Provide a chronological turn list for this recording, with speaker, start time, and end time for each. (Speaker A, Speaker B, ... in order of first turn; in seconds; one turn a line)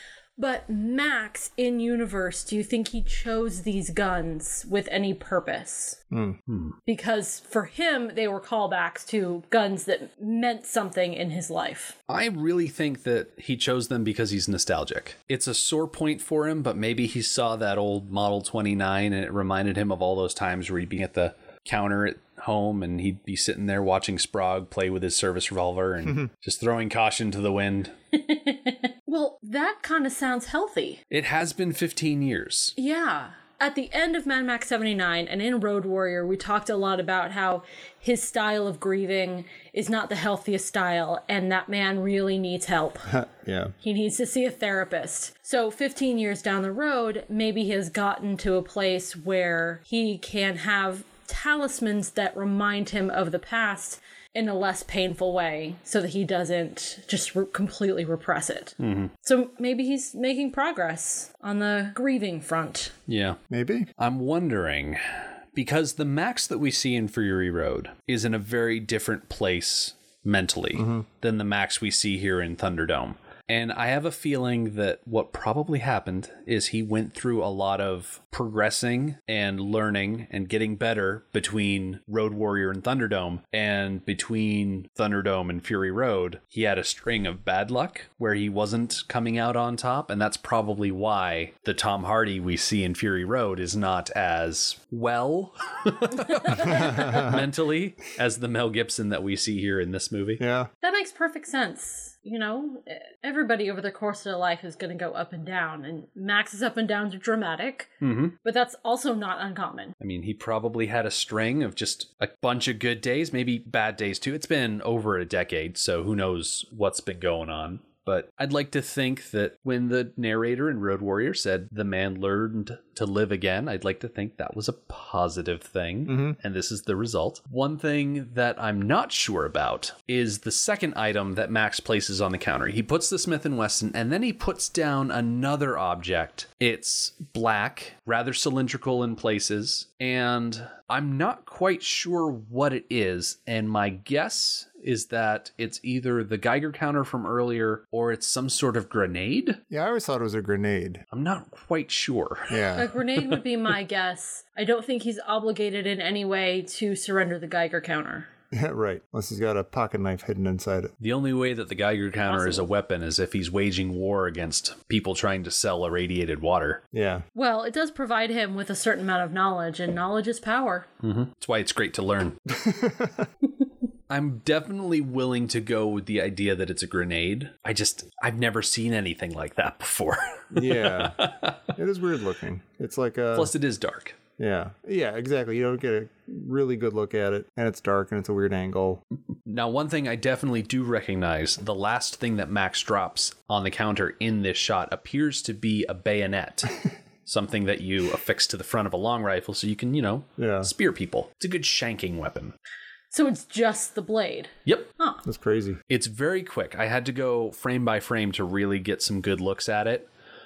Speaker A: 0.4-6.0
Speaker B: 6.1-6.4
Speaker C: 6.5-6.8
Speaker A: 6.9-12.0
Speaker C: 12.1-27.9
Speaker A: 28.1-31.0
Speaker C: 31.1-32.8
Speaker A: 32.8-43.2
Speaker B: 43.1-43.7
Speaker A: 43.8-63.0
Speaker C: 58.8-59.1
Speaker C: 63.1-63.4
Speaker B: 63.5-63.9
Speaker C: 64.0-100.4
Speaker B: 70.8-71.1
Speaker B: 96.7-97.4
Speaker B: 100.4-100.7
Speaker A: 100.8-110.0
Speaker C: 108.0-108.4
Speaker C: 110.0-149.6
Speaker B: 126.1-126.4
Speaker B: 149.7-151.0
Speaker C: 151.1-152.7
Speaker B: 152.5-152.9
Speaker A: 152.8-158.3
Speaker B: 158.5-160.9
Speaker C: 161.0-166.8
Speaker A: 162.3-162.7
Speaker B: 166.9-167.2
Speaker A: 167.3-170.9
Speaker C: 171.0-172.4
Speaker B: 172.5-173.3
Speaker C: 174.1-181.7
Speaker B: 180.5-183.5
Speaker C: 183.3-184.2
Speaker B: 184.4-189.0
Speaker C: 189.3-202.5
Speaker B: 200.4-200.7
Speaker A: 203.1-205.2
Speaker B: 205.2-205.8
Speaker C: 205.9-210.1